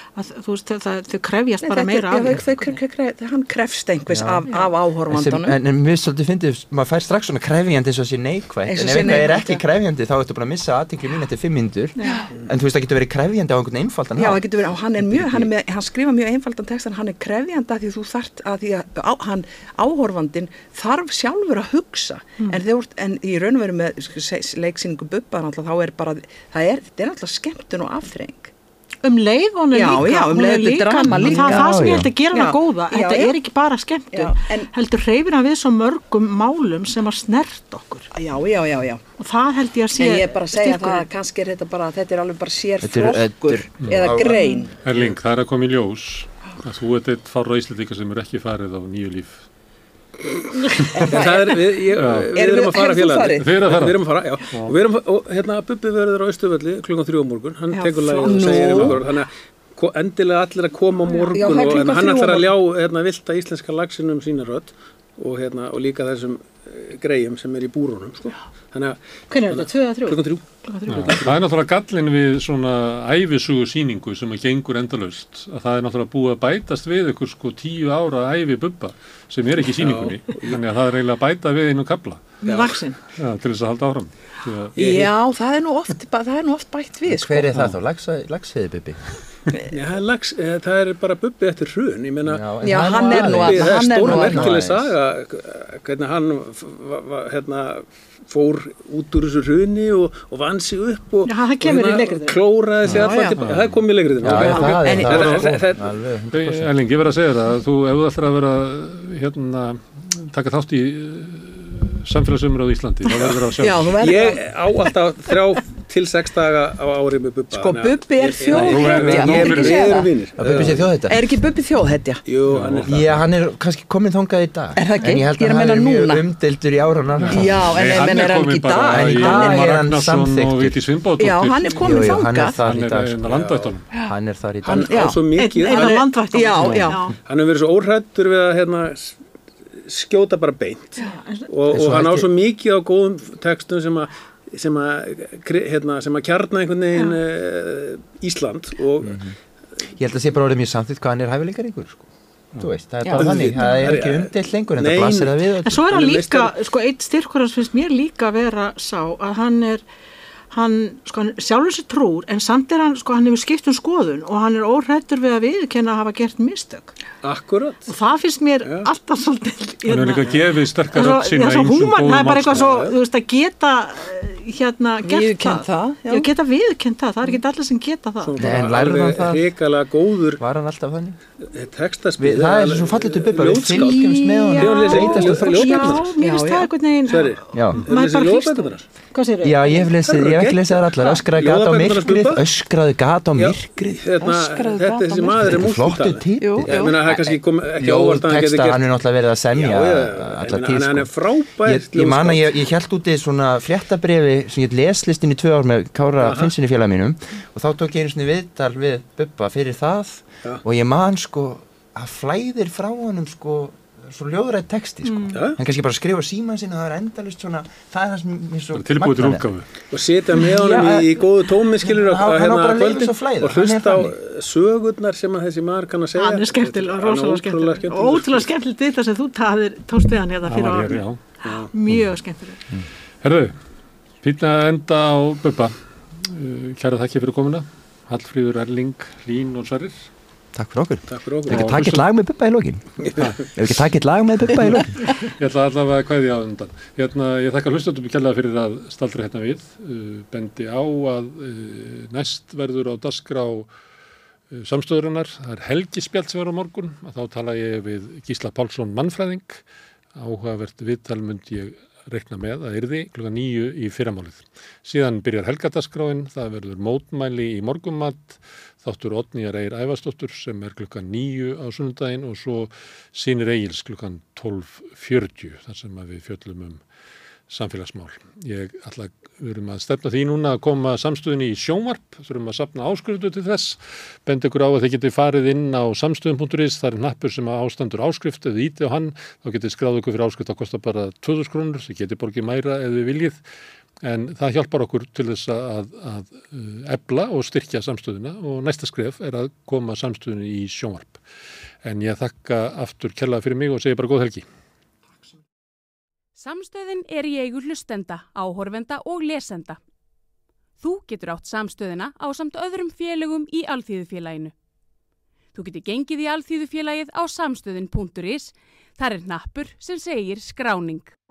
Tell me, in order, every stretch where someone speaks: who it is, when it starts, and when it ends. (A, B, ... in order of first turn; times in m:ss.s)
0:00.1-0:02.8 A
0:01.6-0:05.6 B
0:04.1-0:04.5 C
0:05.1-0:14.4 C
0:08.7-0:09.6 B
0:12.0-0:12.3 A
0:12.0-0:12.3 B
0:14.2-0:28.5 B
0:29.0-0:38.1 A
0:29.7-0:33.4 B
0:31.0-0:32.1 C
0:34.1-0:34.7 B
0:38.1-0:39.0 B
0:39.2-0:41.1 A
0:40.0-0:44.7 B
0:42.8-0:45.0 C
0:43.8-0:44.1 D
0:44.4-0:44.7 A
0:44.8-0:49.4 D
0:50.9-0:53.5 B
0:51.0-1:10.5 E
0:52.0-0:52.3 D
0:53.4-0:54.8 D
0:57.7-0:59.1 B
0:58.7-0:59.0 D
1:01.0-1:01.8 A
1:01.3-1:02.5 B
1:09.3-1:11.2 A
1:10.9-1:22.4 D
1:11.0-1:11.4 E
1:19.7-1:20.6 E
1:22.4-1:22.8 E
1:22.5-1:23.0 A
1:23.2-1:24.8 D
1:24.8-1:25.1 E
1:24.8-1:27.5 B
1:27.1-1:29.0 C
1:29.7-1:45.9 E
1:32.2-1:35.0 C
1:32.6-1:34.6 B
1:41.2-1:43.4 A
1:43.0-1:43.4 B
1:43.4-1:43.8 D
1:44.2-1:46.7 C
1:44.4-1:44.7 A
1:44.6-1:45.4 B
1:45.0-1:45.4 D
1:46.3-1:53.9 D
1:53.1-1:53.4 E
1:53.6-1:54.4 B
1:54.0-2:00.9 E
1:57.5-2:00.1 B
1:58.5-1:59.8 D
1:58.7-1:59.7 C
2:00.4-2:01.2 C
2:01.0-2:02.2 B
2:02.2-2:03.2 E
2:02.5-2:03.2 D
2:02.9-2:07.7 C
2:04.8-2:06.2 B
2:07.2-2:13.8 D
2:07.3-2:09.7 B
2:08.9-2:10.8 C
2:11.2-2:12.6 B
2:11.8-2:13.3 C
2:13.3-2:13.7 E
2:14.0-2:15.1 C
2:14.6-2:16.1 E
2:14.7-2:17.1 B
2:15.4-2:17.1 A
2:17.2-2:19.2 E
2:19.8-2:29.3 E
2:21.0-2:21.5 A
2:21.7-2:22.3 C
2:29.0-2:29.3 C
2:30.0-2:35.8 C
2:33.0-2:33.7 B
2:33.1-2:36.6 E
2:35.7-2:39.8 A
2:40.5-2:46.9 A
2:47.2-2:47.9 E
2:47.9-2:50.4 A
2:48.6-2:48.9 E
2:49.9-2:52.7 D
2:50.9-2:58.4 A
2:52.5-2:52.9 E
2:55.0-2:56.3 B
2:58.2-3:00.4 E
2:58.4-2:59.5 C
3:00.4-3:01.2 C
3:01.4-3:06.2 E
3:02.2-3:06.0 C
3:03.7-3:09.9 A
3:06.2-3:06.7 B
3:07.1-3:08.9 E
3:07.5-3:07.8 C
3:09.4-3:14.0 C
3:10.0-3:12.5 E
3:13.4-3:18.9 E
3:14.2-3:15.7 B
3:15.4-3:21.1 C
3:16.4-3:17.3 B
3:19.5-3:22.5 E
3:21.6-3:39.5 C
3:26.2-3:26.5 E
3:35.0-3:35.4 A
3:35.3-3:35.6 E
3:38.7-3:39.7 D
3:39.9-3:48.5 E
3:40.6-3:41.1 C
3:41.9-3:44.2 C
3:46.2-3:52.6 A
3:50.5-3:51.2 D
3:51.4-3:51.7 E
3:53.2-3:53.6 D
3:54.2-4:00.1 D
4:00.5-4:02.9 C
4:01.1-4:01.8 E
4:01.5-4:02.0 D
4:03.0-4:03.5 E
4:03.2-4:03.5 D
4:03.6-4:05.0 C
4:05.0-4:13.7 D
4:14.5-4:19.6 D
4:20.2-4:36.8 D
4:37.5-4:53.4 D
4:54.0-5:01.2 D
5:01.8-5:04.4 D
5:06.4-5:09.8 F
5:10.8-5:14.5 F
5:15.5-5:21.1 F